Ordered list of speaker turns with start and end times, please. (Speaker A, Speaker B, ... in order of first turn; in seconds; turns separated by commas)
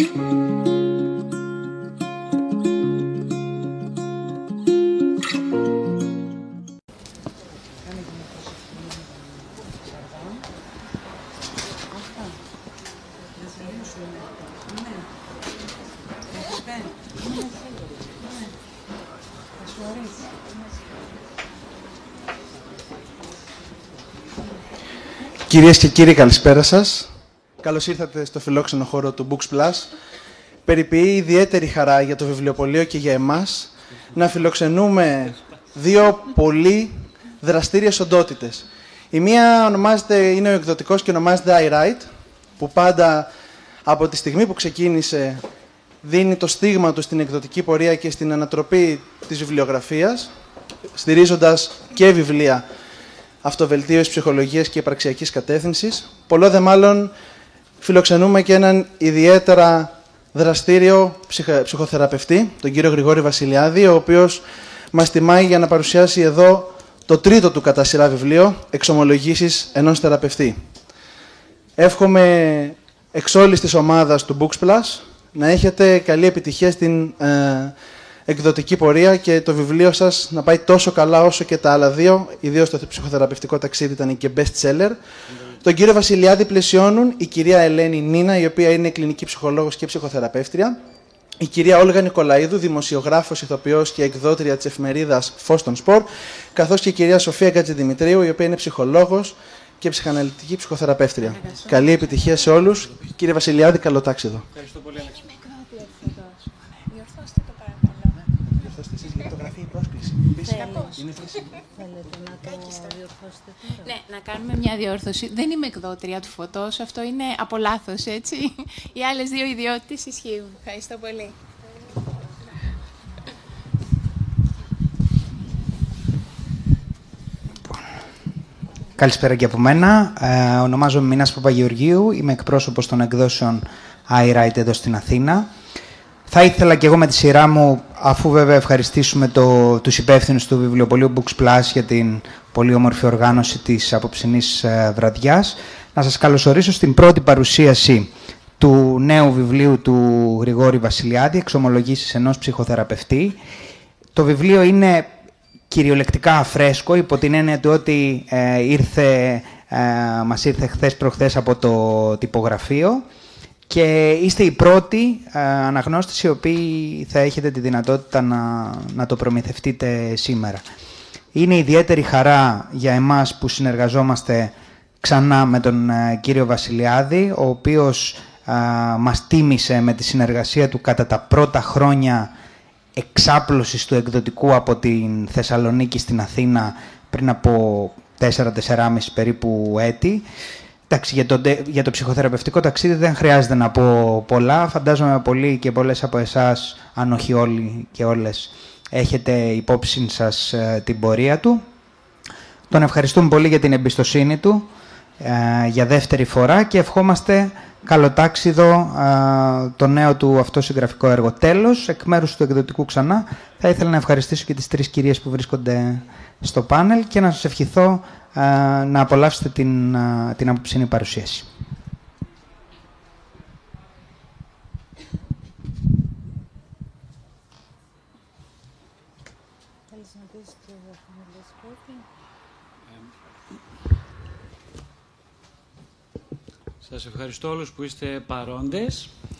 Speaker A: 25.5-29.9, Speaker A: 30.6-43.3, Speaker A: 43.9-45.4, Speaker A: 46.0-50.3, Speaker A: 51.0-52.6, Speaker A: 53.4-57.1, Speaker A: 57.8-70.6, Speaker A: 71.8-85.0, Speaker A: 85.6-90.8, Speaker A: 91.4-104.5, Speaker B: 101.5-102.1, Speaker B: 105.0-108.2, Speaker A: 108.6-111.4, Speaker C: 110.4-111.0, Speaker B: 110.4-111.4, Speaker C: 111.8-113.9, Speaker B: 112.5-113.0, Speaker B: 113.8-121.4, Speaker D: 129.0-135.5, Speaker D: 136.3-153.4, Speaker D: 154.2-155.2, Speaker D: 155.7-163.1, Speaker D: 163.7-170.7, Speaker D: 171.3-182.3, Speaker D: 183.0-190.3, Speaker D: 190.9-201.7, Speaker D: 202.7-221.5, Speaker C: 229.9-232.0, Speaker E: 236.8-239.1